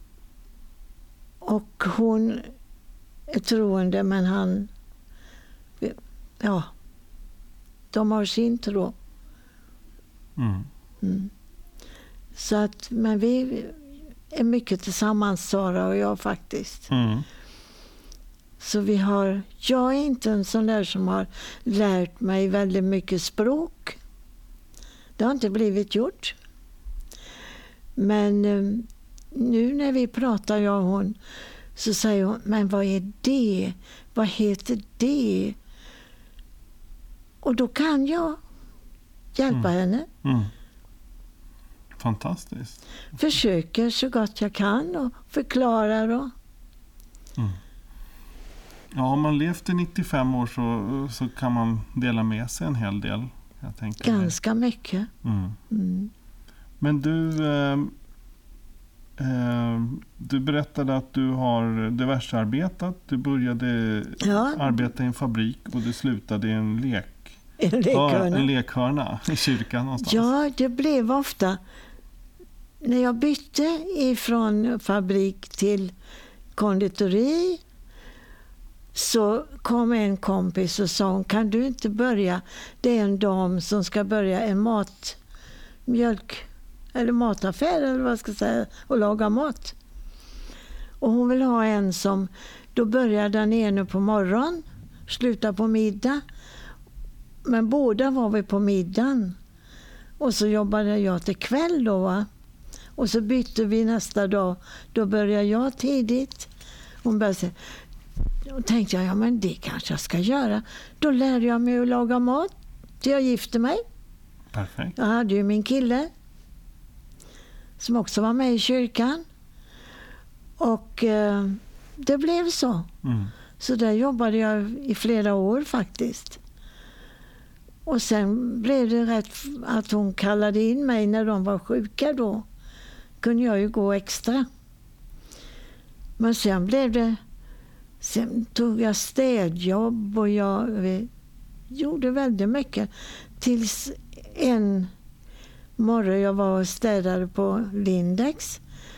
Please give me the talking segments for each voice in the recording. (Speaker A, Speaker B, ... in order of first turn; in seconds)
Speaker A: 1.4-2.5, 3.3-4.7, 5.8-6.7, 7.9-8.9, 11.0-11.3, 12.3-16.9, 18.6-24.0, 25.2-26.4, 28.0-31.2, 31.8-35.6, 37.4-38.4, 39.3-40.1, 43.1-46.3, 54.0-55.1, 55.7-56.1, 64.2-64.8, 67.6-68.5, 70.0-71.6, 72.8-75.9, 76.5-77.6, 78.9-85.2, 85.9-89.8, 91.0-96.2, 97.4-99.4, 100.2-102.3, 103.0-106.5, 107.0-107.5, 108.5-113.8, 115.0-116.1, 117.8-119.2, 120.6-122.9, 123.6-126.4, 127.8-132.5, 133.2-134.5, 136.2-137.2, 138.0-141.1, 141.7-144.9, 145.8-148.6
Speaker B: 10.4-10.7, 16.9-17.3, 40.2-40.5, 42.0-42.8, 48.9-54.4, 55.2-55.6, 56.8-57.9, 59.2-67.4, 67.9-70.3, 114.5-115.0, 123.0-123.3